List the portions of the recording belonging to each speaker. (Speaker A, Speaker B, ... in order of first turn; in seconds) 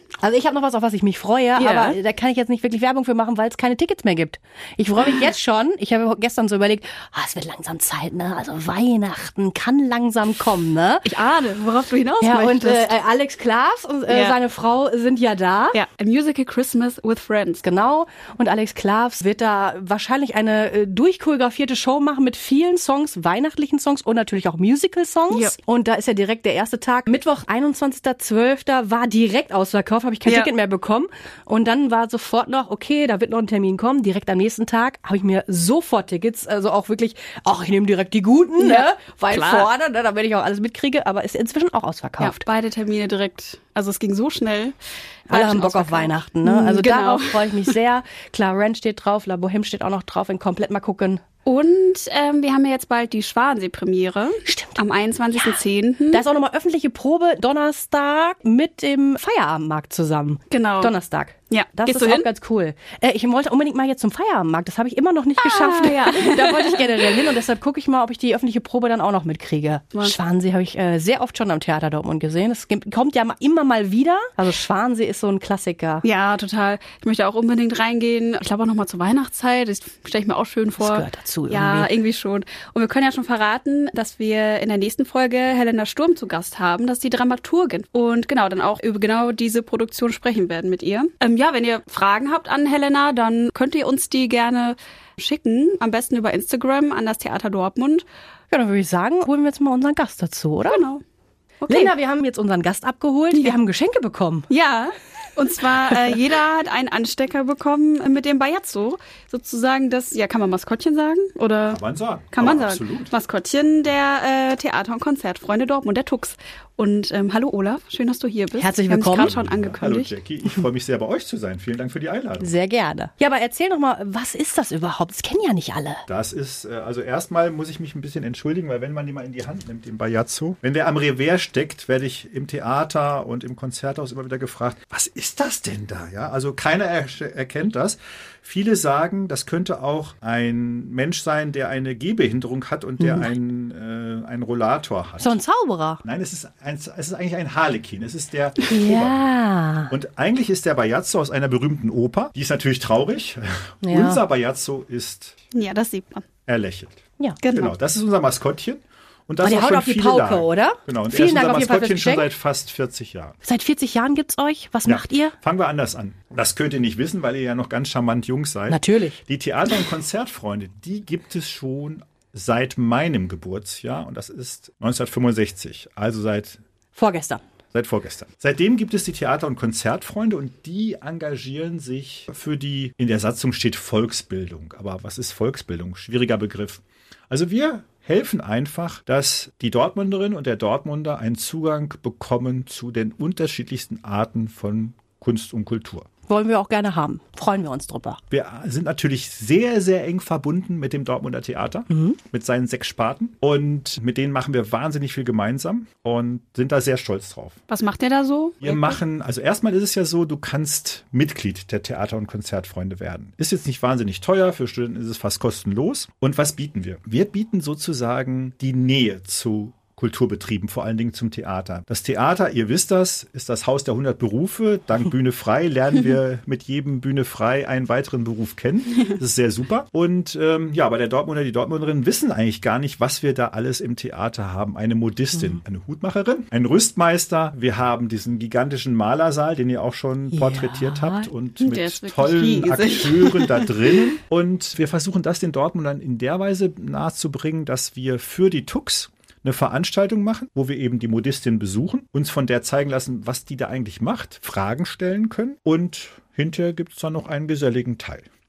Speaker A: 0.2-11.1, 12.2-15.8, 17.6-42.4, 45.3-51.2, 54.5-54.8, 55.4-55.6, 56.1-76.0, 80.8-81.9, 98.5-100.8, 101.7-104.5, 118.6-119.3, 122.4-126.0, 143.0-143.3, 145.2-146.0, 148.7-149.9, 153.8-154.2, 159.4-162.3, 163.4-165.3, 168.7-169.2, 177.0-177.4, 196.3-198.2, 201.9-202.2, 235.3-235.6, 240.3-241.3
Speaker B: 1.6-2.0, 11.1-12.9, 14.1-14.3, 15.7-17.6, 25.3-25.6, 38.6-39.7, 42.2-44.8, 45.3-47.7, 51.5-56.2, 60.5-61.0, 61.5-62.3, 65.4-67.1, 76.0-98.0, 100.7-101.0, 101.7-101.9, 104.5-111.8, 112.3-120.1, 155.5-156.2, 157.4-157.7, 207.7-209.0, 241.6-244.0
Speaker C: 111.7-113.1, 119.2-122.5, 126.1-145.4, 146.0-149.3, 149.9-155.3, 156.5-163.4, 164.8-176.6, 177.7-196.1, 198.3-207.6, 208.6-258.3